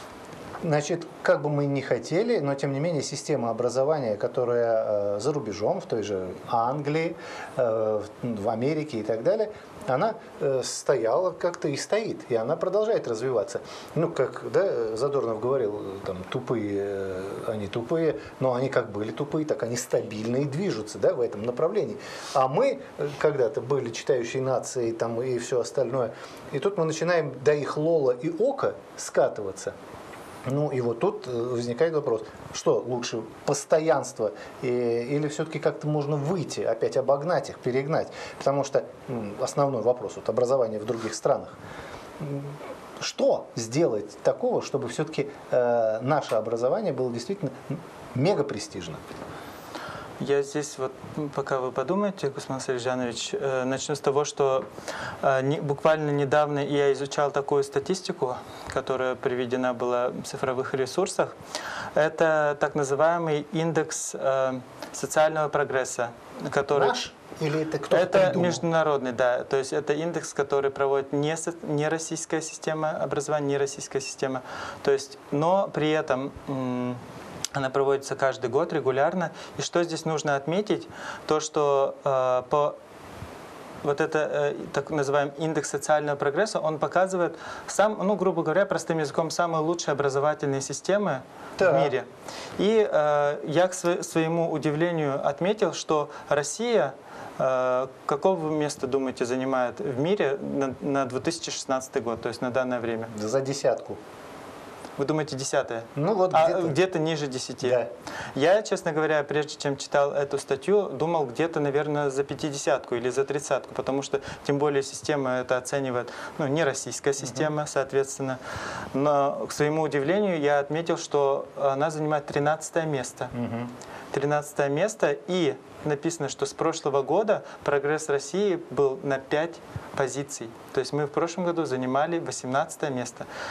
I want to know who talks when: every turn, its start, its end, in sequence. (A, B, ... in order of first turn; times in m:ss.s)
0:00.6-0:29.7 A
0:30.4-0:41.6 A
0:42.2-0:49.0 A
0:50.2-0:54.7 B
0:55.2-1:01.3 B
1:01.9-1:07.0 B
1:06.7-1:08.6 A
1:07.9-1:17.0 B
1:17.5-1:22.8 B
1:23.8-1:32.1 B
1:31.6-1:31.9 A
1:32.6-1:43.1 B
1:43.1-1:44.0 A
1:45.0-1:47.8 B
1:46.0-1:46.8 A
1:47.6-1:47.9 A
1:48.3-1:58.4 B
1:57.2-1:57.5 A
1:58.9-2:03.3 B
2:03.3-2:03.7 A
2:04.1-2:13.2 B